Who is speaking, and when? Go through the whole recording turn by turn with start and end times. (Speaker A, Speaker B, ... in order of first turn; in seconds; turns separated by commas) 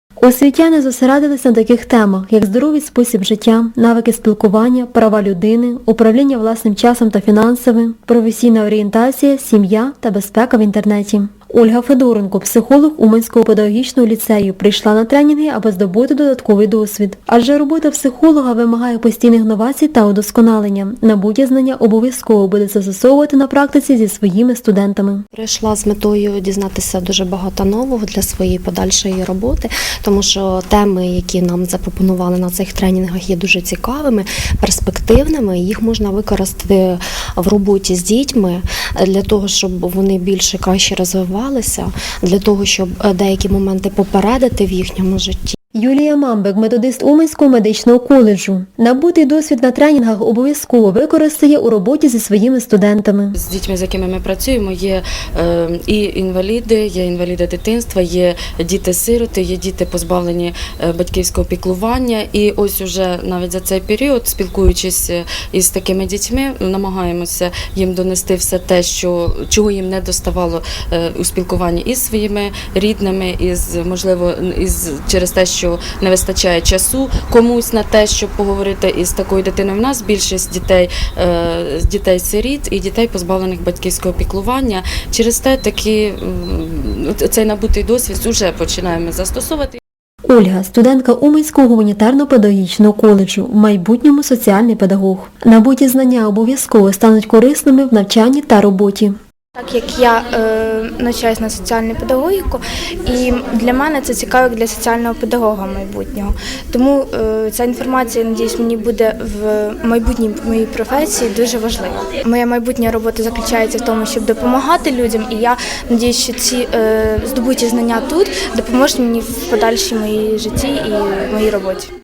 Speaker A: 0.2-25.2, Speaker B: 25.3-45.6, Speaker A: 45.7-53.3, Speaker C: 53.3-89.8, Speaker A: 90.3-99.1, Speaker D: 99.5-121.9